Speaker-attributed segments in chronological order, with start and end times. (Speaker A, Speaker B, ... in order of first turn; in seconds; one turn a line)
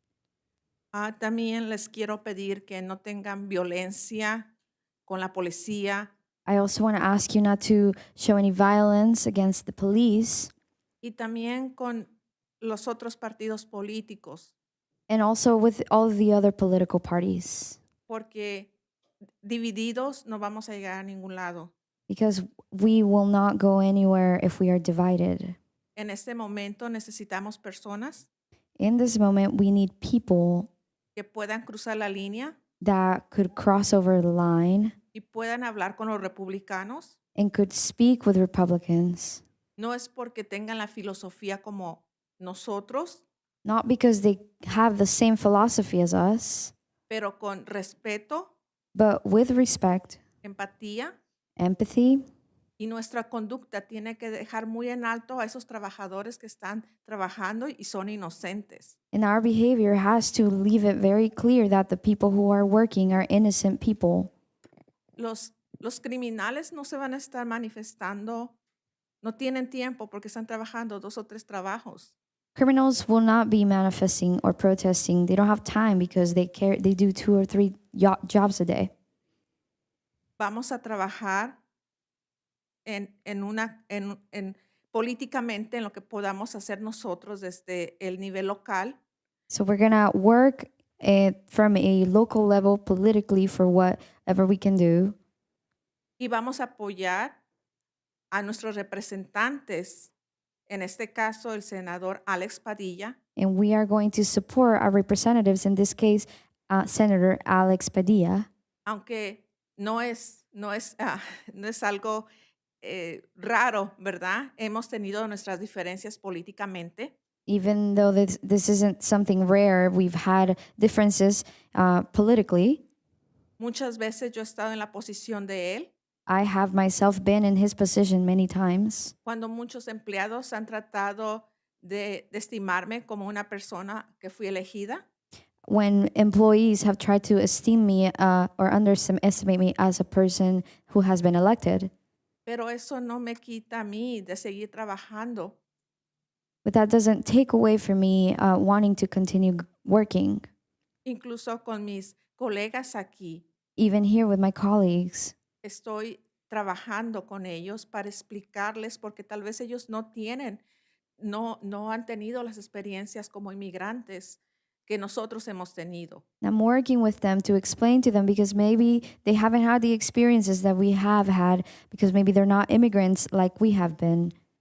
Speaker A: 0.9-4.5
Speaker A: 5.1-6.1
Speaker B: 6.5-10.5
Speaker A: 11.0-12.1
Speaker A: 12.6-14.5
Speaker B: 15.1-17.8
Speaker A: 18.1-18.7
Speaker A: 19.4-21.7
Speaker B: 22.1-25.6
Speaker A: 25.9-28.3
Speaker B: 28.8-30.7
Speaker A: 31.2-32.5
Speaker B: 32.8-35.0
Speaker A: 35.1-37.2
Speaker B: 37.4-39.4
Speaker A: 39.8-43.2
Speaker B: 43.6-46.7
Speaker A: 47.1-48.5
Speaker B: 49.0-50.2
Speaker A: 50.4-51.1
Speaker B: 51.6-52.2
Speaker A: 52.8-59.0
Speaker B: 59.1-64.3
Speaker A: 65.2-68.5
Speaker A: 69.2-72.1
Speaker B: 72.6-78.9
Speaker A: 80.4-81.6
Speaker A: 82.8-88.9
Speaker B: 89.5-95.2
Speaker A: 96.2-97.4
Speaker A: 98.3-100.1
Speaker A: 100.7-103.2
Speaker B: 103.3-108.5
Speaker A: 108.8-112.3
Speaker A: 112.8-117.1
Speaker B: 117.5-122.8
Speaker A: 123.6-125.9
Speaker B: 126.3-129.1
Speaker A: 129.2-135.0
Speaker B: 135.7-141.9
Speaker A: 142.5-145.6
Speaker B: 146.6-150.5
Speaker A: 151.1-153.4
Speaker B: 153.8-155.3
Speaker A: 155.6-160.6
Speaker A: 161.2-166.2
Speaker B: 166.4-174.3